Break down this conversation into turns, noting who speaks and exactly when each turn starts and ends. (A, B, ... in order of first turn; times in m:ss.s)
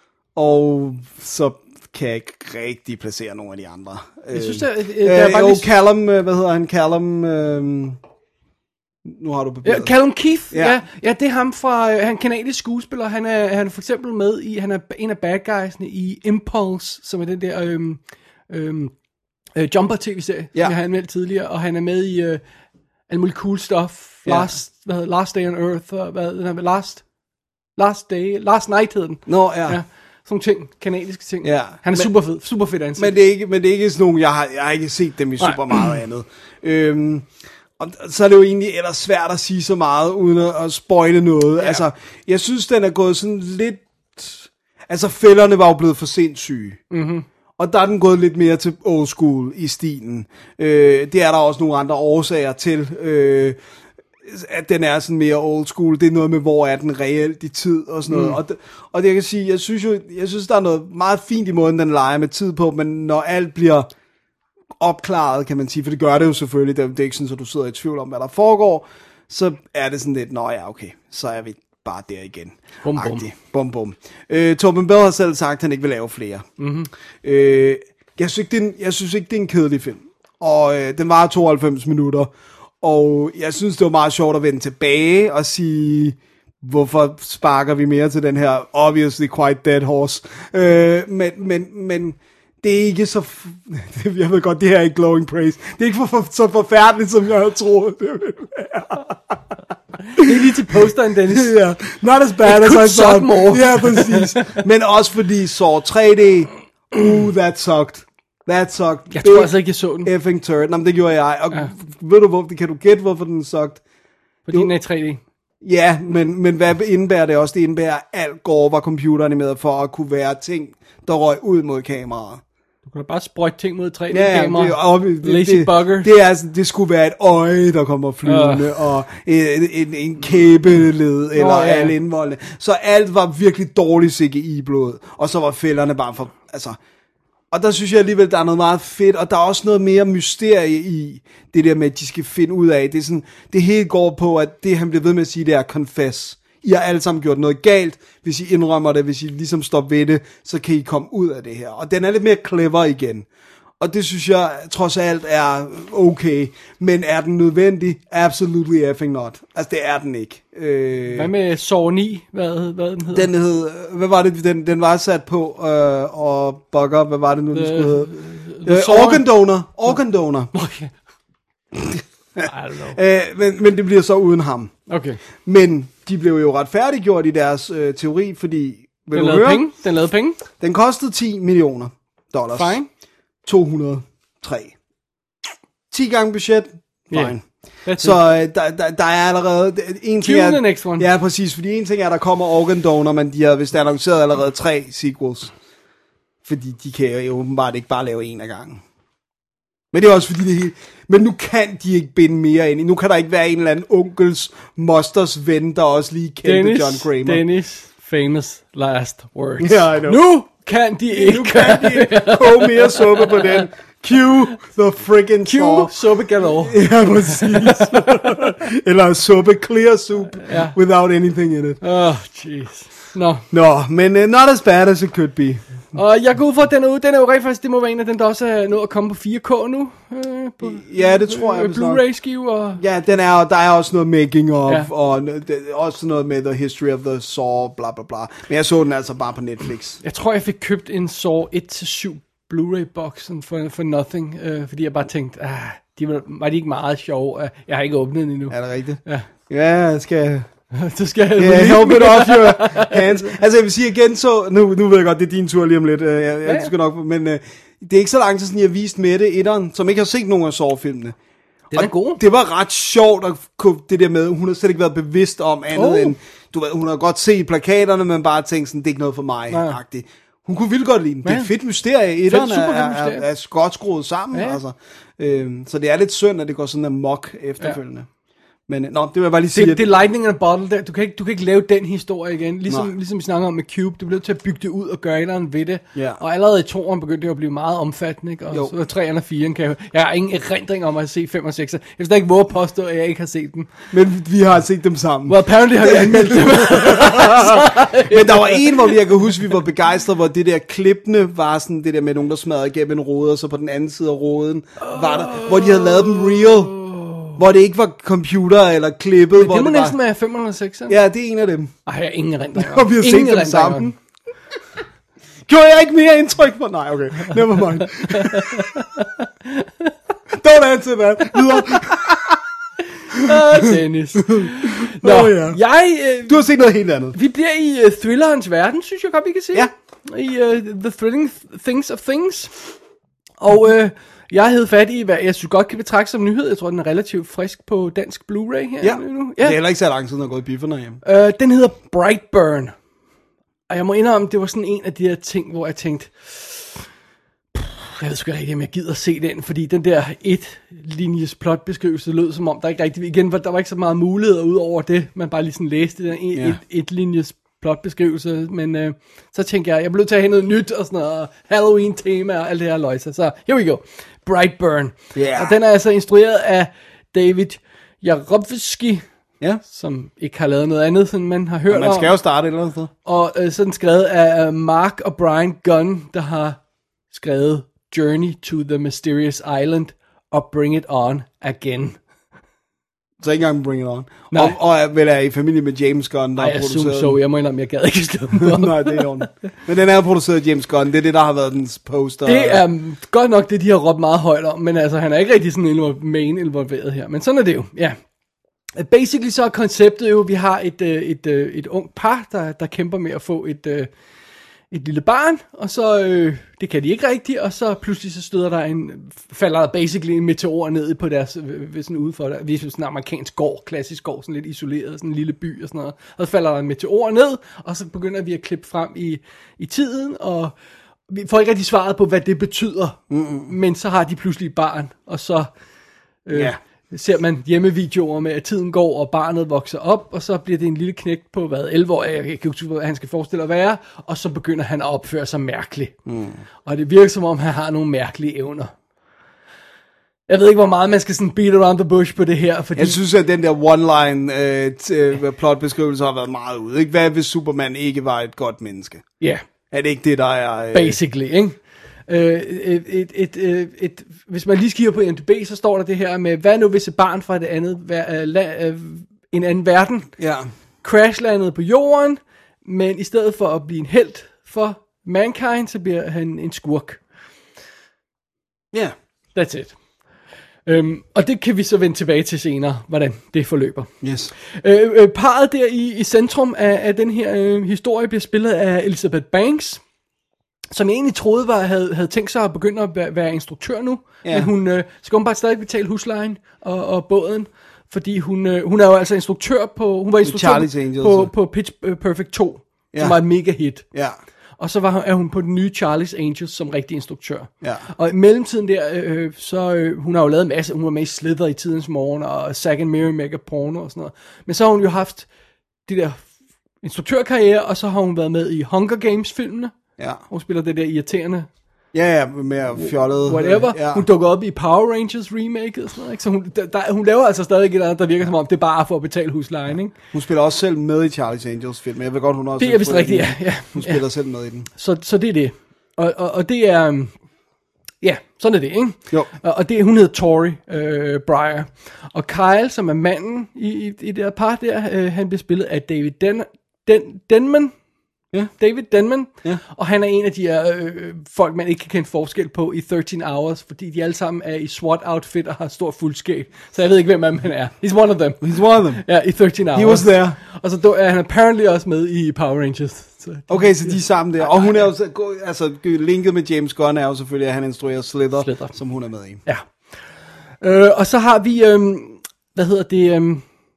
0:00.4-0:08.0 A
0:04.3-0:05.7 B
0:09.0-0:09.9 A
0:09.6-0:18.9 B
0:10.5-0:10.8 A
0:19.6-0:22.4 B
0:23.1-0:27.0 B
0:24.3-0:24.5 A
0:27.8-0:33.1 B
0:29.3-0:29.8 A
0:31.4-0:32.1 A
0:33.0-0:46.8 A
0:35.4-0:35.9 B
0:46.9-0:47.3 B
0:47.6-0:53.6 A
0:54.2-1:03.9 A
0:58.1-0:58.4 B
1:04.8-1:16.5 A
1:12.8-1:13.3 B
1:16.6-1:16.9 B
1:17.2-1:39.4 A
1:40.1-1:41.5 B
1:40.2-1:53.8 A
1:42.4-1:44.6 B
1:49.1-1:50.1 B
1:54.5-1:55.2 B
1:55.6-2:02.4 A
2:02.9-2:06.1 B
2:04.1-2:16.8 A
2:08.2-2:08.8 B
2:11.4-2:11.9 B
2:17.5-2:33.3 A
2:33.8-2:41.3 A
2:41.1-2:43.3 B
2:43.1-2:48.1 A
2:47.5-2:49.3 B
2:48.6-2:50.5 A
2:50.5-2:50.9 B
2:51.7-2:54.7 A
2:52.5-2:53.0 B
2:54.9-2:55.2 B
2:55.4-2:59.7 A
2:59.1-3:00.4 B
3:00.6-3:02.8 A
3:02.5-3:02.9 B
3:03.4-3:04.8 A
3:05.9-3:07.4 A
3:07.1-3:08.2 B
3:08.0-3:15.5 A
3:10.2-3:11.1 B
3:16.4-3:18.8 A
3:19.9-3:27.4 A
3:26.4-3:33.7 B
3:29.6-3:30.3 A
3:31.1-3:41.8 A
3:35.4-3:38.5 B
3:40.4-3:40.8 B
3:41.8-3:43.4 B
3:43.5-3:45.6 A
3:45.9-3:52.8 B
3:50.6-3:52.0 A
3:52.8-4:00.0 A
4:00.0-4:09.3 B
4:08.5-4:10.5 A
4:10.7-4:13.4 B
4:11.4-4:21.2 A
4:16.4-4:16.7 B
4:21.7-4:22.2 B
4:21.7-4:38.1 A
4:25.7-4:26.2 B
4:29.5-4:29.8 B
4:31.2-4:31.5 B
4:32.3-4:33.2 B
4:34.3-4:34.6 B
4:38.7-4:39.9 A
4:39.5-4:53.7 B
4:46.0-4:46.2 A
4:53.9-5:06.8 A
4:55.3-4:58.9 B
5:04.8-5:07.4 B
5:07.4-5:10.0 A
5:09.4-5:11.0 B
5:10.9-5:11.7 A
5:11.9-5:14.0 B
5:12.6-5:13.9 A
5:15.5-5:18.8 A
5:18.1-5:19.9 B
5:20.3-5:22.4 A
5:21.5-5:22.0 B
5:23.1-5:26.4 B
5:23.2-5:25.6 A
5:26.3-5:27.2 A
5:27.1-5:32.5 B
5:33.4-5:39.6 B
5:38.8-5:41.0 A
5:41.0-5:42.7 B
5:43.7-5:46.8 B
5:47.6-6:09.0 B
5:56.3-5:56.6 A
6:05.2-6:05.6 A
6:09.6-6:12.1 B
6:11.7-6:12.9 A
6:13.1-6:16.6 B
6:17.1-6:22.0 B
6:23.2-6:27.2 A
6:24.3-6:24.6 B
6:26.4-6:29.3 B
6:28.3-6:32.6 A
6:32.2-6:38.0 B
6:38.8-6:43.9 B
6:44.7-7:00.5 B
7:01.1-7:05.5 B
7:03.1-7:03.5 A
7:06.3-7:15.9 B
7:06.3-7:06.6 A
7:16.1-7:16.4 A
7:16.6-7:18.7 B
7:20.3-7:23.0 B
7:22.8-7:29.0 A
7:29.7-7:31.0 A
7:30.7-7:40.1 B
7:40.2-7:40.5 A
7:40.8-7:47.0 B
7:49.4-7:49.8 B
7:50.7-7:53.9 B
7:54.0-7:54.3 A
7:54.4-7:59.8 B
8:00.7-8:13.8 B
8:04.2-8:04.5 A
8:10.2-8:11.3 A
8:12.9-8:13.2 A
8:13.9-8:14.2 A
8:14.6-8:25.3 B
8:17.6-8:17.9 A
8:25.9-8:26.3 B
8:26.8-8:29.7 B
8:30.0-8:30.2 A
8:30.3-8:31.5 B
8:31.9-8:34.0 A
8:32.8-8:39.9 B
8:40.1-8:44.7 A
8:42.6-8:44.0 B
8:44.7-8:47.1 B
8:48.0-8:57.7 B
8:58.6-9:14.9 B
9:08.4-9:09.0 A
9:09.7-9:10.4 A
9:13.5-9:19.4 A
9:18.4-9:18.8 B
9:20.6-9:23.4 B